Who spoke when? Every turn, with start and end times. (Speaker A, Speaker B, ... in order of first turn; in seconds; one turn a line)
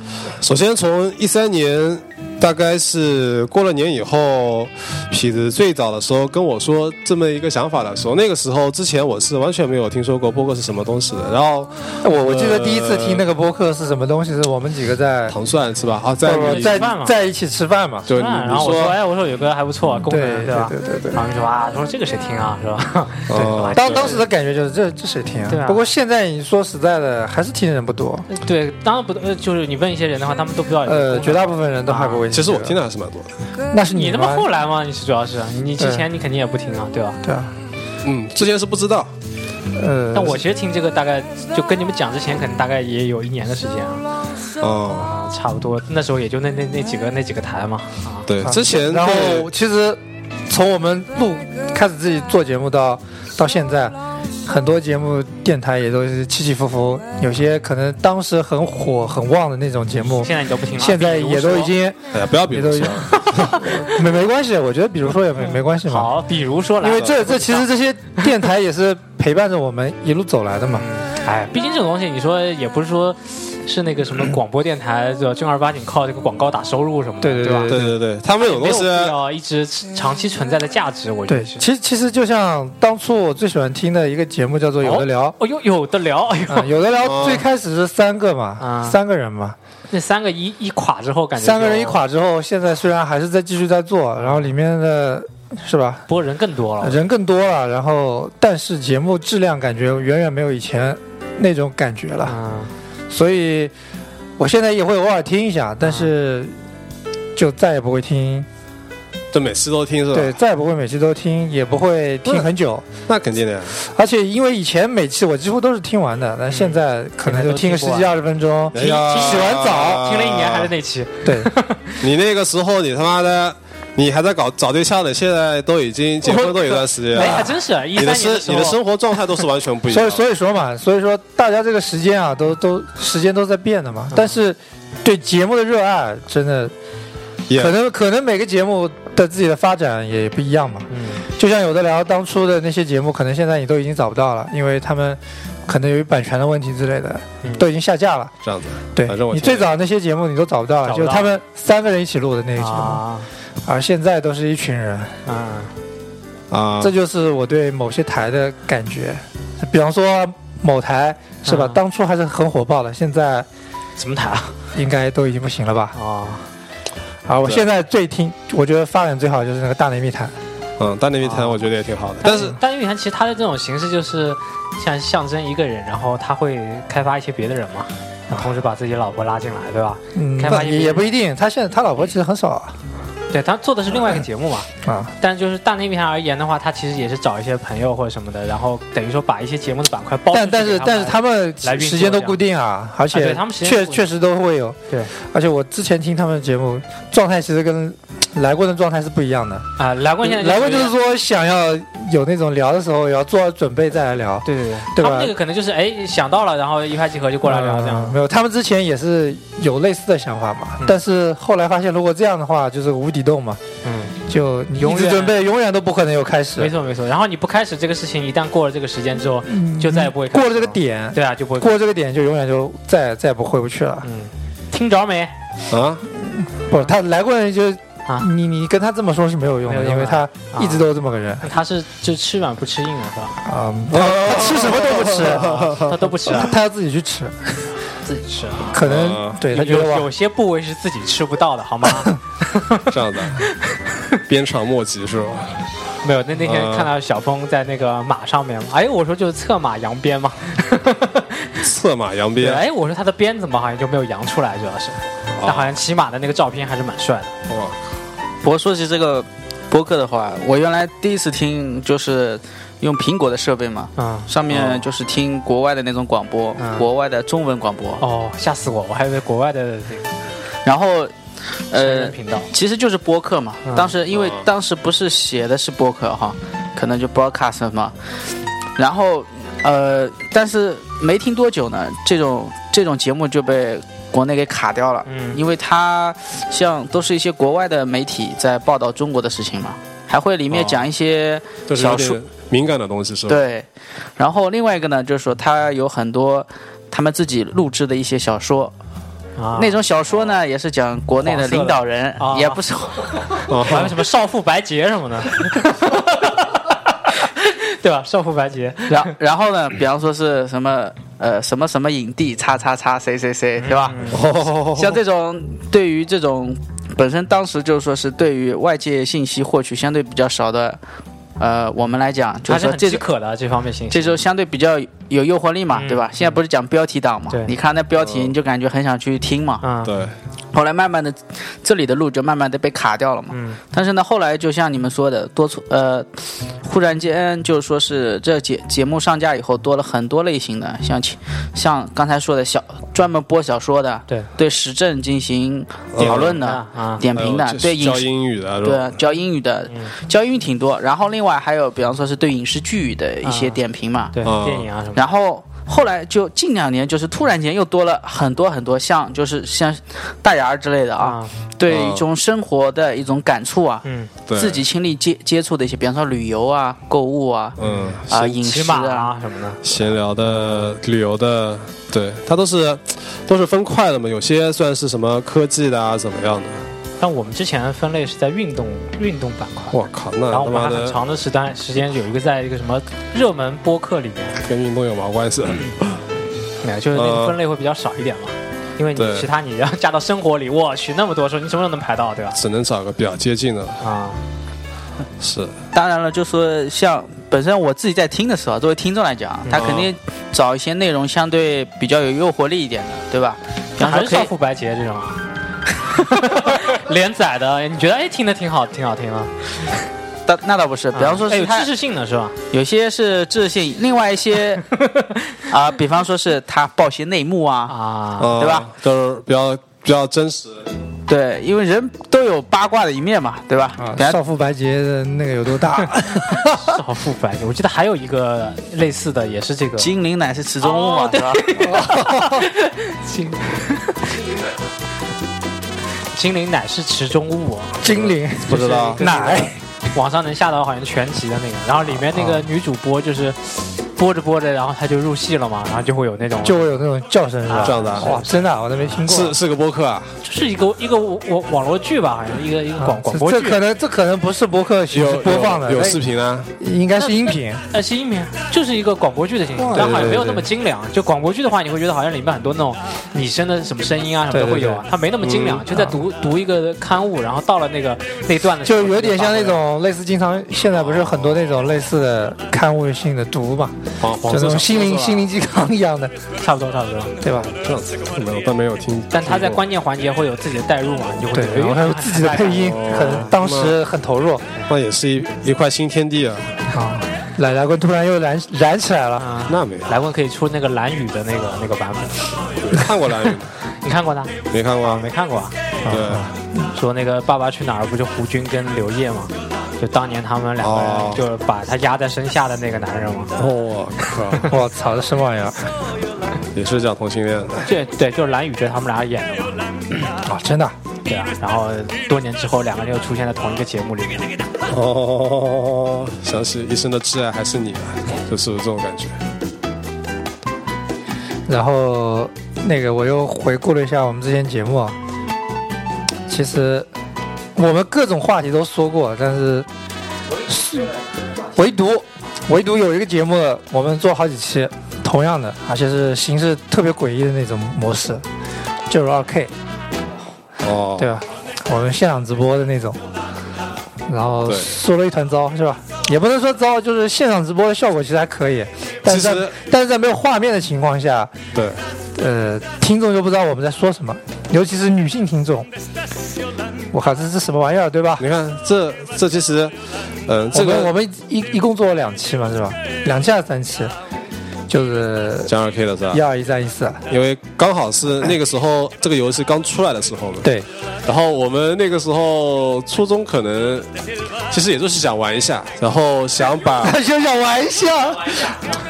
Speaker A: 0.4-13.2
Speaker B: 12.0-15.3
Speaker A: 15.3-16.9
Speaker B: 16.2-18.1
Speaker C: 16.3-17.2
Speaker A: 18.1-19.0
Speaker C: 18.1-24.2
Speaker B: 20.1-21.2
Speaker A: 23.3-24.2
Speaker B: 23.4-28.3
Speaker C: 25.5-25.9
Speaker C: 28.3-32.2
Speaker B: 30.9-32.8
Speaker A: 32.3-33.3
Speaker B: 33.7-34.5
Speaker C: 33.9-37.2
Speaker B: 35.8-36.1
Speaker B: 37.2-37.5
Speaker A: 38.0-39.1
Speaker B: 39.8-40.4
Speaker C: 40.1-44.1
Speaker A: 44.6-45.1
Speaker C: 45.0-48.3
Speaker A: 48.3-49.5
Speaker B: 48.4-66.1
Speaker C: 60.1-61.8
Speaker A: 62.1-63.6
Speaker C: 65.9-68.2
Speaker B: 66.8-70.9
Speaker C: 70.8-77.7
Speaker B: 77.2-78.0
Speaker A: 77.7-79.2
Speaker C: 78.4-81.6
Speaker B: 81.3-85.4
Speaker C: 84.8-86.7
Speaker B: 86.5-89.6
Speaker A: 87.0-87.5
Speaker C: 88.6-89.0
Speaker C: 89.9-92.0
Speaker B: 91.4-96.1
Speaker C: 94.2-94.5
Speaker C: 96.1-97.0
Speaker B: 96.8-102.4
Speaker C: 102.2-102.7
Speaker B: 103.1-103.7
Speaker B: 104.4-106.5
Speaker C: 105.8-106.1
Speaker B: 107.3-108.5
Speaker A: 109.3-110.4
Speaker B: 110.1-112.9
Speaker A: 113.1-113.8
Speaker B: 113.8-120.2
Speaker C: 116.5-118.1
Speaker A: 118.7-120.7
Speaker C: 118.7-122.0
Speaker B: 121.2-121.5
Speaker A: 122.0-130.2
Speaker C: 126.3-128.8
Speaker B: 127.1-127.5
Speaker B: 129.9-136.7
Speaker C: 134.1-134.4
Speaker A: 137.5-137.7
Speaker B: 137.6-148.3
Speaker C: 140.9-141.2
Speaker A: 148.4-149.7
Speaker B: 148.9-153.0
Speaker C: 150.8-151.3
Speaker C: 152.6-153.3
Speaker B: 153.7-155.2
Speaker C: 155.3-155.7
Speaker A: 156.5-156.9
Speaker B: 156.8-163.5
Speaker C: 161.4-161.8
Speaker C: 164.0-164.6
Speaker B: 164.8-165.9
Speaker C: 165.9-166.5
Speaker B: 167.3-170.3
Speaker A: 170.8-172.6
Speaker C: 171.2-171.6
Speaker C: 172.2-181.1
Speaker B: 180.2-182.8
Speaker C: 183.3-184.7
Speaker B: 183.9-184.2
Speaker B: 184.8-185.1
Speaker C: 185.2-192.4
Speaker B: 190.3-199.7
Speaker C: 193.1-194.1
Speaker C: 199.8-200.9
Speaker B: 200.2-205.3
Speaker C: 204.4-208.2
Speaker B: 207.4-213.6
Speaker C: 213.8-214.2
Speaker B: 214.3-216.7
Speaker C: 214.8-215.4
Speaker C: 216.6-221.7
Speaker B: 219.4-224.1
Speaker C: 224.0-225.3
Speaker A: 225.7-226.1
Speaker B: 226.1-231.5
Speaker C: 229.7-230.9
Speaker C: 231.4-233.4
Speaker B: 233.4-237.7
Speaker A: 233.9-236.3
Speaker C: 235.6-236.6
Speaker C: 238.1-238.8
Speaker B: 238.7-240.1
Speaker A: 238.8-239.4
Speaker C: 239.5-242.8
Speaker A: 242.9-243.4
Speaker A: 244.3-245.6
Speaker C: 246.0-251.6
Speaker A: 246.4-246.9
Speaker A: 251.6-252.6
Speaker C: 252.4-257.3
Speaker A: 255.3-255.7
Speaker A: 257.5-257.8
Speaker D: 258.4-268.0
Speaker C: 264.0-264.3
Speaker A: 264.5-264.8
Speaker C: 266.6-266.9
Speaker C: 268.0-270.1
Speaker D: 270.6-271.1
Speaker D: 271.7-277.9
Speaker C: 271.8-272.5
Speaker C: 273.7-273.9
Speaker A: 274.1-274.4
Speaker D: 278.8-292.2
Speaker C: 285.1-285.4
Speaker C: 290.5-290.8
Speaker A: 291.7-293.4
Speaker D: 293.3-293.7
Speaker D: 294.2-298.7
Speaker C: 299.4-299.8
Speaker D: 299.6-303.4
Speaker C: 301.2-309.1
Speaker A: 303.5-303.9
Speaker D: 308.9-320.8
Speaker C: 313.6-314.3
Speaker A: 314.1-315.0
Speaker D: 321.4-323.1
Speaker C: 322.5-324.2
Speaker D: 323.9-329.6
Speaker C: 325.7-326.4
Speaker A: 328.0-328.3
Speaker C: 329.6-329.9
Speaker A: 329.8-330.1
Speaker D: 330.5-336.1
Speaker C: 333.3-333.6
Speaker D: 336.6-348.1
Speaker A: 345.9-346.4
Speaker C: 346.4-347.0
Speaker A: 347.1-348.9
Speaker D: 348.6-354.1
Speaker C: 349.7-349.9
Speaker C: 353.2-353.6
Speaker C: 354.1-355.0
Speaker A: 354.2-354.7
Speaker D: 354.9-367.6
Speaker C: 361.0-361.3
Speaker A: 361.7-362.1
Speaker C: 363.8-364.1
Speaker A: 364.3-364.6
Speaker A: 367.6-368.1
Speaker C: 367.6-369.7
Speaker D: 368.1-369.1
Speaker A: 369.6-376.7
Speaker C: 370.3-370.7
Speaker C: 377.0-379.8
Speaker A: 379.7-381.0
Speaker C: 380.3-384.4
Speaker A: 384.4-386.0
Speaker C: 386.6-392.4
Speaker A: 386.9-387.4
Speaker A: 389.0-389.3
Speaker A: 392.4-393.8
Speaker C: 393.8-394.2
Speaker A: 395.2-395.6
Speaker D: 395.7-404.3
Speaker C: 399.4-399.9
Speaker A: 399.6-399.9
Speaker C: 403.8-405.2
Speaker C: 405.9-409.7
Speaker D: 410.3-411.7
Speaker C: 410.9-412.4
Speaker D: 412.5-414.6
Speaker C: 414.8-415.3
Speaker D: 415.5-417.8
Speaker C: 417.7-418.3
Speaker A: 418.2-420.7
Speaker D: 418.4-418.7
Speaker D: 421.1-424.2
Speaker B: 423.8-426.6
Speaker C: 426.1-429.9
Speaker D: 429.8-431.5
Speaker C: 430.6-434.2
Speaker B: 431.6-432.5
Speaker C: 436.1-437.8
Speaker B: 437.8-439.6
Speaker A: 437.8-439.0
Speaker C: 438.5-446.7
Speaker B: 442.2-442.4
Speaker B: 446.4-449.4
Speaker C: 447.5-448.3
Speaker A: 447.6-448.1
Speaker A: 449.1-450.2
Speaker C: 450.2-453.6
Speaker B: 452.8-456.0
Speaker A: 454.9-456.5
Speaker B: 456.6-457.6
Speaker C: 457.0-469.6
Speaker A: 459.6-460.4
Speaker B: 459.7-460.5
Speaker B: 464.3-464.9
Speaker A: 465.2-465.7
Speaker B: 465.7-466.0
Speaker B: 468.6-476.1
Speaker A: 474.0-474.9
Speaker C: 474.7-475.1
Speaker C: 476.4-477.2
Speaker B: 477.2-477.6
Speaker A: 477.5-479.6
Speaker C: 479.1-483.3
Speaker B: 481.3-484.5
Speaker A: 482.6-483.8
Speaker A: 484.7-486.6
Speaker B: 486.7-489.3
Speaker C: 489.2-492.3
Speaker A: 489.5-490.0
Speaker A: 492.6-493.6
Speaker C: 493.8-495.6
Speaker A: 494.5-495.1
Speaker B: 495.8-496.7
Speaker A: 495.9-496.3
Speaker C: 496.7-503.3
Speaker A: 500.6-501.2
Speaker A: 503.4-504.6
Speaker B: 504.5-505.7
Speaker A: 506.5-507.7
Speaker C: 507.7-509.6
Speaker B: 510.2-510.8
Speaker C: 511.1-514.3
Speaker A: 514.7-519.2
Speaker B: 521.5-525.0
Speaker B: 526.3-526.9
Speaker B: 527.5-529.7
Speaker B: 530.4-531.0
Speaker B: 531.5-538.2
Speaker B: 538.9-539.5
Speaker A: 540.6-541.1
Speaker B: 541.0-543.0
Speaker B: 544.1-551.4
Speaker A: 544.5-544.7
Speaker A: 549.1-549.5
Speaker A: 551.5-551.8
Speaker B: 552.1-555.7
Speaker B: 556.9-558.3
Speaker A: 558.2-559.8
Speaker A: 560.3-560.9
Speaker B: 560.5-563.9
Speaker B: 564.7-565.5
Speaker A: 565.5-566.2
Speaker B: 566.1-567.0
Speaker A: 567.1-570.5
Speaker B: 570.4-570.7
Speaker A: 571.0-573.9
Speaker A: 574.5-577.0
Speaker B: 576.8-578.6